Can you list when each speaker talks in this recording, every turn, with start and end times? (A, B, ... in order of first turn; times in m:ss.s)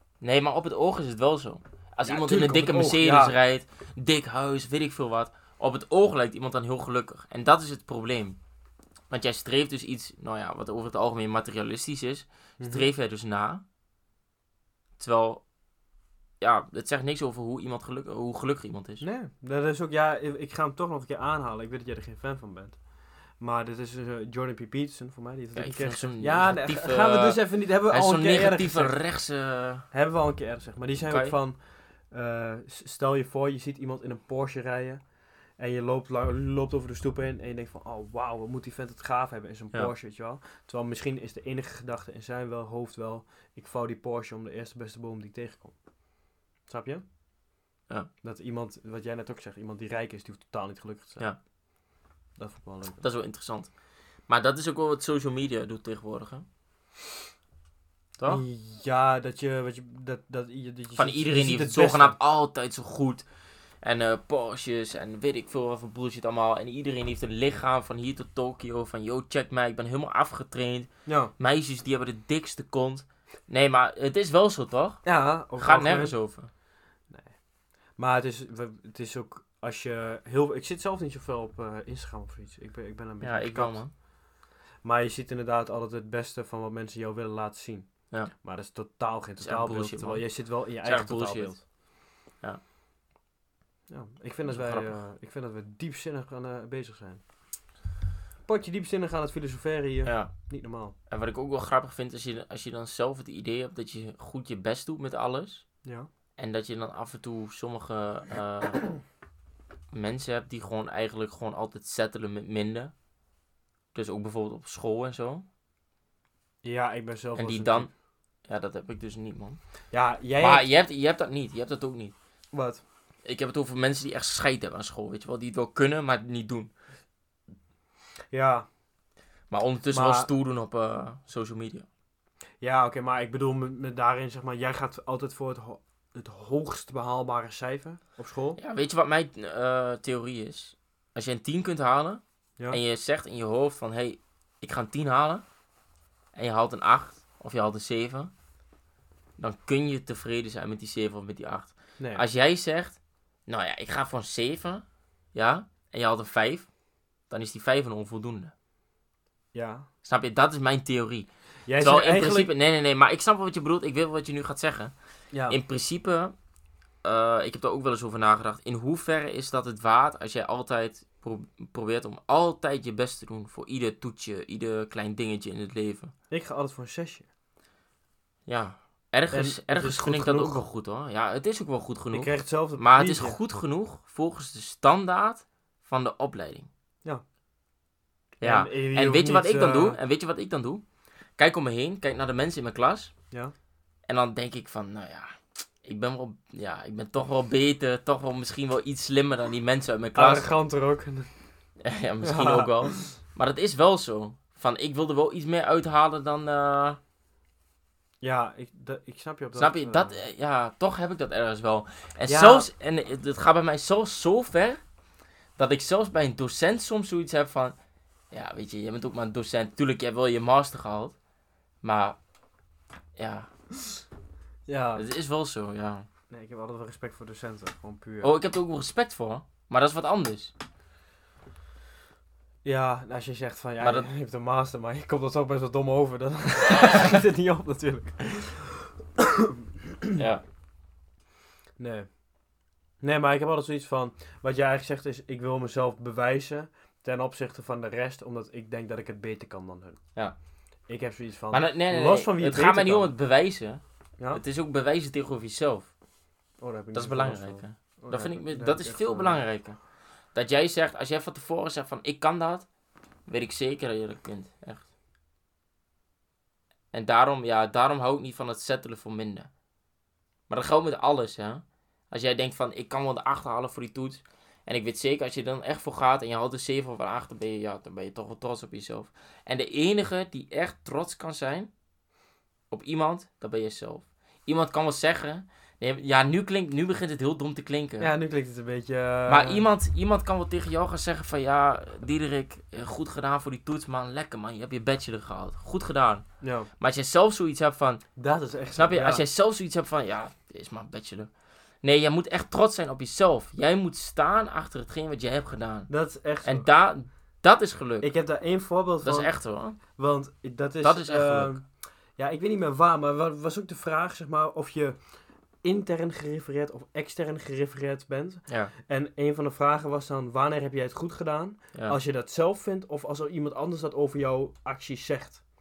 0:00.2-0:08.4 A
0:02.0-0:03.3 B
0:09.1-0:13.6 A
0:12.6-0:12.9 B
0:15.0-0:15.4 A
0:16.4-0:19.0 A
0:19.0-0:22.8 B
0:23.4-0:29.0 B
0:25.6-0:29.9 A
0:29.9-0:31.6 B
0:31.0-0:31.4 A
0:32.1-0:35.0 B
0:35.6-0:45.8 B
0:46.7-0:47.0 B
0:48.2-0:51.3 B
0:52.4-0:53.0 B
0:53.0-0:53.7 A
0:54.3-0:56.5 A
0:58.3-1:02.2 B
1:01.0-1:03.3 A
1:03.8-1:15.1 A
1:11.1-1:11.3 B
1:15.0-1:16.2 B
1:15.6-1:16.5 A
1:17.1-1:17.4 B
1:18.0-1:23.8 B
1:23.2-1:23.9 A
1:24.8-1:31.6 B
1:29.4-1:31.6 A
1:33.9-1:37.2 B
1:34.4-1:35.0 A
1:38.5-1:41.0 B
1:40.0-1:40.3 A
1:41.1-1:45.6 A
1:46.4-1:48.9 A
1:49.9-1:52.9 A
1:53.9-1:55.4 A
1:56.6-1:57.9 B
1:57.4-1:57.9 A
1:58.5-1:59.6 A
1:59.9-2:00.6 B
2:00.4-2:02.1 A
2:02.5-2:02.8 B
2:03.2-2:06.7 A
2:08.3-2:08.7 B
2:09.5-2:11.9 A
2:09.9-2:10.3 B
2:12.6-2:18.6 B
2:18.6-2:25.4 A
2:26.3-2:28.3 A
2:29.4-2:36.7 A
2:37.3-2:38.5 A
2:39.5-2:39.9 B
2:40.0-2:41.3 A
2:41.6-2:42.5 B
2:41.8-2:44.9 A
2:45.3-2:45.6 B
2:45.5-2:46.3 A
2:47.0-2:56.1 A
2:56.3-2:57.3 B
2:58.5-3:06.7 A
2:59.3-3:00.6 B
3:02.1-3:03.4 B
3:08.4-3:10.8 A
3:08.4-3:10.0 B
3:11.4-3:13.1 A
3:14.1-3:20.5 A
3:20.2-3:21.3 B
3:21.8-3:27.0 A
3:22.2-3:23.1 B
3:28.2-3:30.2 B
3:29.6-3:34.8 A
3:32.3-3:32.7 B
3:35.6-3:37.8 A
3:38.3-3:41.1 A
3:41.8-3:42.2 A
3:43.2-3:43.5 A
3:44.7-3:45.0 B
3:45.0-3:46.1 A
3:46.3-3:48.3 B
3:48.2-3:50.5 A
3:52.6-4:00.2 B
3:53.8-3:54.1 A
4:00.2-4:00.4 A
4:01.8-4:02.1 B
4:03.0-4:10.0 B
4:10.9-4:13.1 B
4:11.5-4:15.9 A
4:16.6-4:19.4 B
4:16.9-4:19.8 A
4:20.3-4:22.7 A
4:23.3-4:24.9 A
4:26.9-4:29.5 A
4:30.5-4:41.7 A
4:42.7-4:48.1 A
4:48.0-4:49.6 B
4:49.3-4:56.2 A
4:56.4-4:56.7 B
4:56.8-4:58.0 A
4:58.2-4:59.2 B
4:58.8-5:01.3 A
5:01.8-5:05.9 A
5:05.9-5:06.7 B
5:06.4-5:08.1 A
5:08.0-5:15.0 B
5:09.0-5:09.8 A
5:10.8-5:11.6 A
5:15.6-5:25.4 B